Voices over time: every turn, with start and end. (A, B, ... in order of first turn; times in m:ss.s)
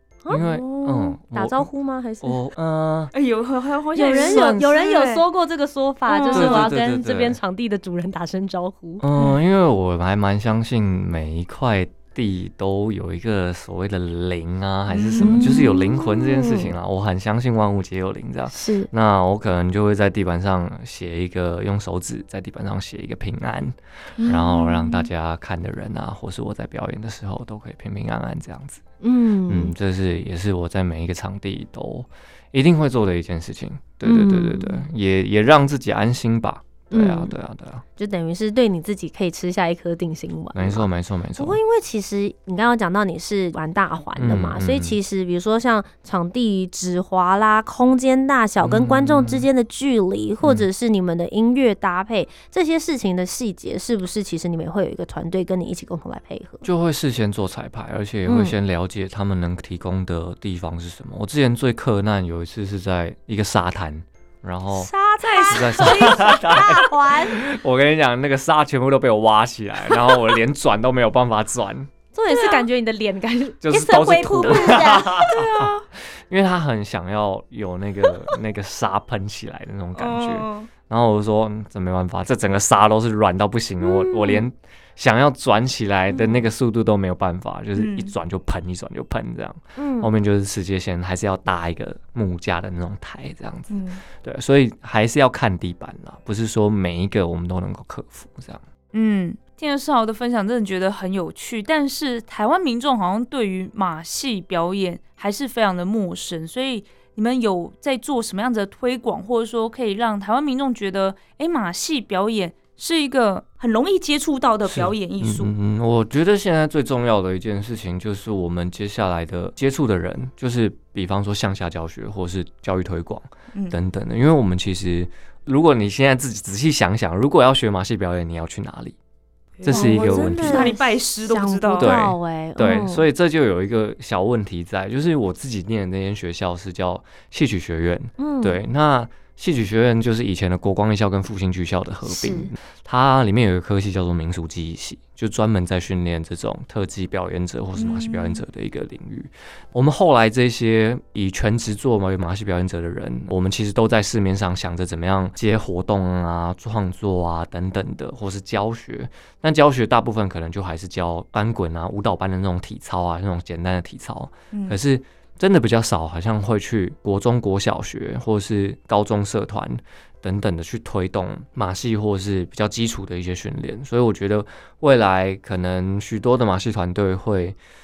0:00.2-0:02.4 A
0:00.3-0:01.7 B
0:02.2-0:03.1 B
0:03.1-0:05.2 C
0:04.0-0:09.0 A
0:04.0-0:04.8 B
0:06.1-0:06.7 C
0:06.3-0:07.4 B
0:09.0-0:28.8 B
0:14.9-0:15.6 C
0:15.2-0:16.7 A
0:18.5-0:18.9 A
0:24.2-0:24.8 A
0:29.0-0:29.7 A
0:29.5-0:37.8 B
0:34.0-0:34.9 A
0:36.9-0:37.3 A
0:38.0-0:40.8 A
0:40.5-0:41.6 B
0:41.4-0:56.7 A
0:44.2-0:45.0 B
0:48.6-0:49.5 B
0:56.6-1:04.9 B
0:58.3-0:58.6 A
1:04.8-1:07.4 A
1:05.2-1:06.3 C
1:05.5-1:11.9 B
1:12.1-1:15.3 A
1:13.6-1:38.6 B
1:14.4-1:15.8 C
1:20.0-1:20.7 C
1:23.9-1:24.4 C
1:27.8-1:28.1 C
1:29.8-1:30.1 A
1:33.7-1:34.0 C
1:38.9-1:55.5 C
1:54.7-2:09.0 B
2:09.6-2:12.0 C
2:09.6-2:10.7 B
2:09.7-2:13.0 A
2:11.8-2:57.6 B
2:18.2-2:18.6 A
2:22.1-2:22.5 A
2:27.8-2:28.4 C
2:44.5-2:44.8 C